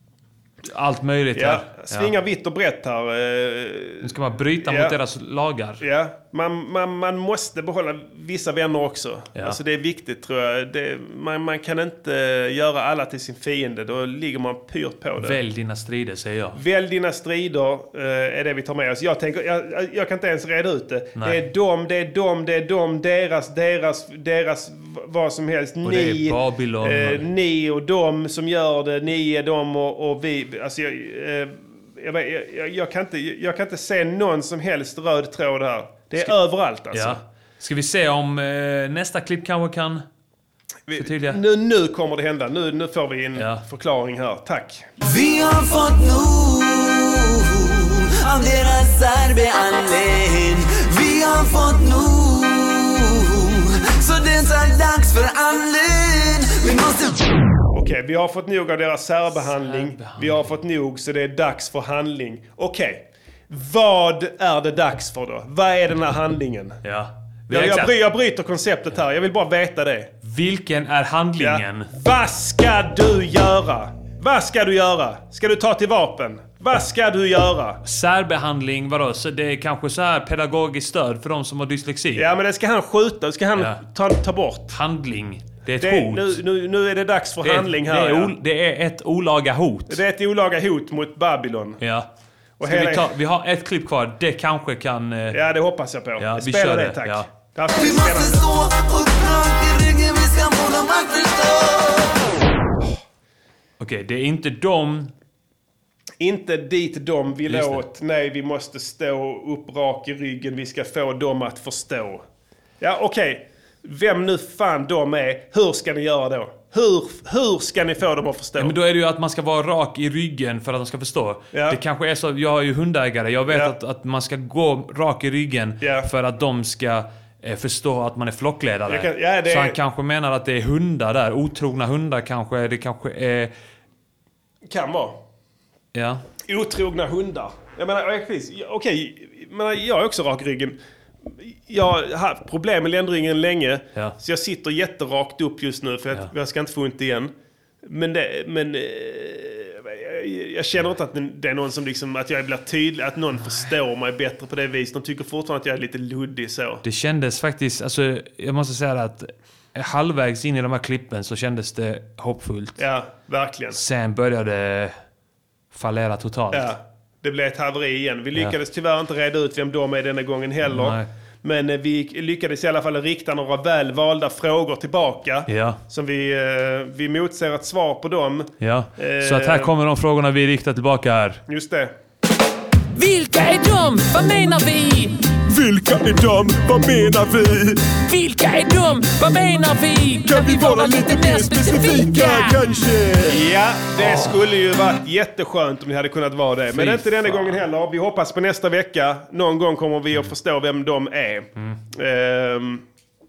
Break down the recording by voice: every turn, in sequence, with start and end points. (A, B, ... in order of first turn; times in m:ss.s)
0:00.7-0:02.1 A
0:01.4-0:05.0 B
0:04.0-0:05.8 A
0:05.8-0:15.4 B
0:15.2-0:16.6 A
0:16.6-0:37.2 B
0:25.8-0:27.3 A
0:36.9-0:40.0 A
0:40.9-0:44.9 B
0:41.0-0:41.4 A
0:43.4-0:43.6 A
0:45.0-0:57.2 C
0:57.7-1:06.8 B
0:59.6-1:00.5 A
1:06.8-1:07.9 A
1:07.5-1:10.1 B
1:10.2-1:11.9 A
1:11.4-1:17.8 B
1:17.8-1:22.3 A
1:22.2-1:24.7 B
1:23.6-1:23.8 A
1:24.7-1:26.4 A
1:25.8-1:28.3 B
1:27.4-1:30.0 A
1:29.9-1:31.8 B
1:31.8-1:32.1 A
1:32.6-1:33.1 B
1:32.6-1:35.4 A
1:35.3-1:38.5 B
1:36.2-1:37.3 A
1:37.7-1:42.2 C
1:43.8-1:45.1 A
1:46.2-1:52.2 B
1:47.5-1:47.8 A
1:52.8-1:58.8 B
1:58.6-2:13.5 A
2:01.5-2:01.8 B
2:03.5-2:03.8 B
2:05.8-2:06.1 B
2:08.9-2:09.8 B
2:14.7-2:15.2 B
2:15.9-2:16.2 A
2:16.5-2:20.8 B
2:21.3-2:27.3 B
2:27.8-2:36.8 B
2:33.4-2:33.7 A
2:36.8-2:42.8 A
2:42.8-2:43.8 B
2:43.7-2:45.0 A
2:45.7-2:46.7 A
2:46.5-2:59.7 B
2:50.6-2:51.1 A
2:55.5-2:55.8 A
2:58.6-3:01.4 A
3:01.5-3:01.9 B
3:03.0-3:05.1 D
3:05.5-3:07.8 E
3:08.0-3:12.7 D
3:10.3-3:13.3 E
3:13.3-3:22.8 B
3:14.0-3:14.3 A
3:16.7-3:17.6 A